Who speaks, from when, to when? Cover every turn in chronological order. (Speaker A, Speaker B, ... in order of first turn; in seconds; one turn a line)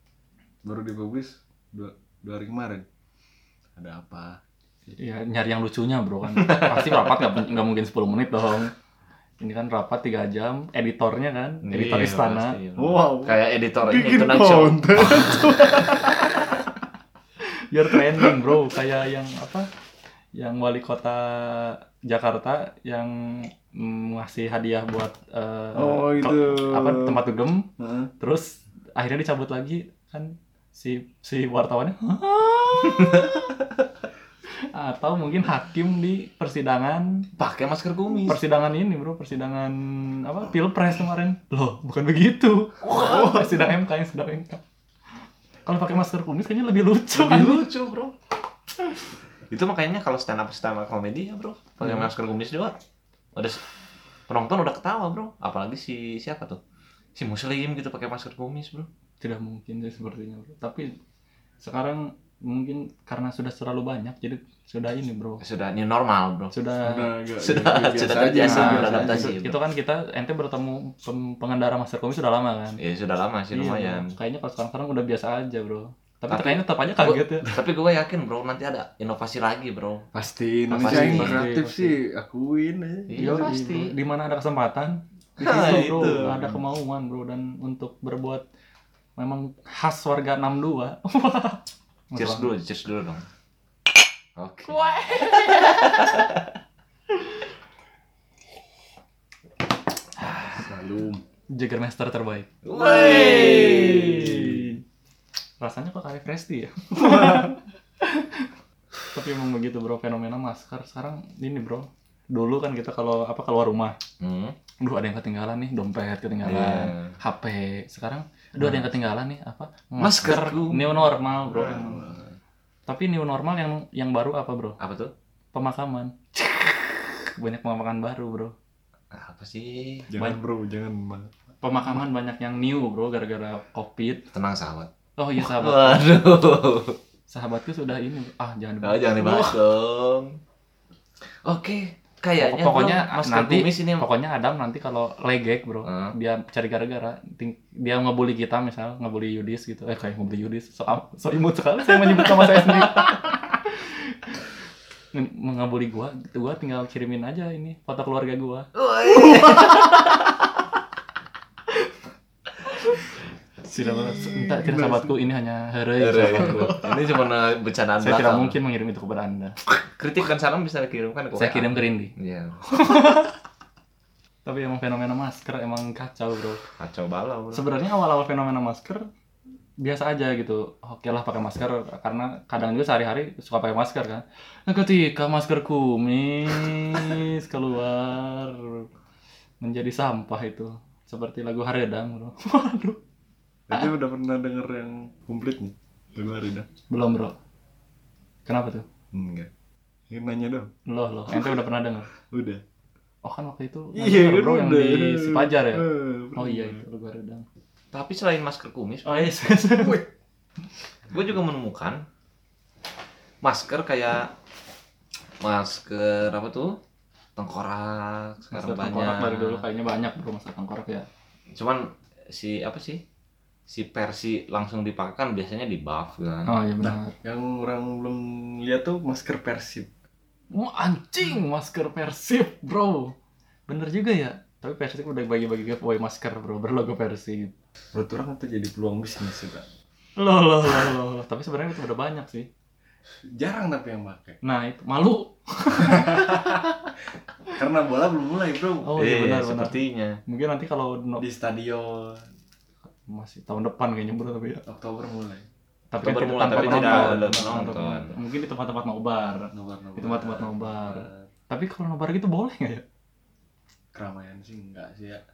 Speaker A: 0.6-2.8
Speaker A: 3.8-4.4
Speaker B: 5.0-8.7
Speaker C: 6.3-7.4
Speaker B: 9.4-12.6
Speaker C: 11.6-15.2
Speaker A: 12.8-16.5
Speaker B: 17.7-19.7
Speaker B: 20.4-27.6
Speaker A: 25.8-27.2
Speaker A: 27.8-28.1
Speaker B: 28.2-33.6
Speaker C: 33.0-33.4
Speaker B: 34.7-37.2
Speaker C: 37.4-38.4
Speaker B: 38.2-44.6
Speaker C: 42.8-43.7
Speaker B: 45.6-47.6
Speaker C: 47.1-48.1
Speaker C: 49.5-52.8
Speaker B: 51.8-52.1
Speaker C: 53.3-53.6
Speaker C: 54.3-56.6
Speaker C: 57.1-58.9
Speaker B: 59.2-60.9
Speaker B: 61.6-65.4
Speaker C: 65.4-66.5
Speaker B: 66.5-67.1
Speaker A: 66.8-69.3
Speaker C: 67.4-69.6
Speaker B: 68.4-72.8
Speaker C: 72.8-74.1
Speaker B: 73.5-77.5
Speaker C: 76.3-80.0
Speaker A: 80.1-83.4
Speaker B: 80.7-81.9
Speaker C: 80.8-81.4
Speaker C: 83.1-83.9
Speaker B: 83.2-88.4
Speaker C: 85.4-86.5
Speaker A: 86.2-86.6
Speaker B: 89.2-92.5
Speaker C: 92.2-93.2
Speaker C: 94.4-96.4
Speaker B: 94.7-96.1
Speaker A: 100.5-101.2
Speaker B: 101.5-104.8
Speaker C: 102.6-104.4
Speaker A: 102.8-104.7
Speaker B: 105.6-108.5
Speaker A: 107.0-107.5
Speaker B: 109.1-113.9
Speaker C: 114.2-114.6
Speaker B: 114.8-122.1
Speaker C: 116.4-117.2
Speaker C: 118.6-118.9
Speaker C: 120.0-121.0
Speaker A: 121.5-122.3
Speaker B: 122.9-124.8
Speaker C: 124.8-125.1
Speaker B: 125.5-128.5
Speaker C: 129.1-130.1
Speaker A: 130.1-131.3
Speaker B: 131.6-134.2
Speaker C: 134.3-137.0
Speaker B: 135.2-136.2
Speaker B: 137.3-139.6
Speaker C: 138.8-140.4
Speaker C: 141.4-144.1
Speaker B: 142.4-154.4
Speaker C: 145.8-146.1
Speaker B: 155.1-160.0
Speaker C: 158.8-160.2
Speaker B: 162.7-163.0
Speaker B: 163.7-166.9
Speaker A: 163.7-165.1
Speaker C: 166.0-168.6
Speaker B: 168.0-169.6
Speaker C: 169.8-172.9
Speaker B: 171.3-172.1
Speaker B: 172.7-173.3
Speaker B: 174.4-176.6
Speaker C: 176.8-177.6
Speaker B: 177.5-179.0
Speaker B: 179.8-188.9
Speaker B: 189.6-193.0
Speaker A: 193.7-196.7
Speaker B: 196.9-197.3
Speaker B: 198.4-198.8
Speaker A: 199.1-199.5
Speaker A: 200.1-200.7
Speaker B: 200.8-202.1
Speaker A: 202.3-202.6
Speaker B: 203.2-207.4
Speaker A: 203.9-206.8
Speaker C: 207.9-209.3
Speaker B: 209.0-210.0
Speaker A: 209.8-210.1
Speaker C: 211.1-212.0
Speaker C: 213.4-214.3
Speaker C: 215.4-216.7
Speaker C: 217.3-219.6
Speaker B: 218.5-221.1
Speaker C: 221.6-223.0
Speaker C: 223.7-226.5
Speaker B: 226.4-227.1
Speaker A: 226.8-229.9
Speaker B: 230.5-233.1
Speaker B: 233.7-237.5
Speaker A: 237.9-239.6
Speaker B: 240.2-242.5
Speaker A: 243.3-244.4
Speaker B: 244.4-246.9
Speaker A: 245.9-246.4
Speaker A: 247.5-248.9
Speaker B: 248.8-251.2
Speaker C: 248.9-250.2
Speaker A: 251.2-252.2
Speaker B: 253.1-254.6
Speaker A: 254.7-255.4
Speaker B: 255.9-262.8
Speaker C: 256.0-258.1
Speaker A: 256.5-257.2
Speaker A: 259.5-261.3
Speaker A: 263.9-265.2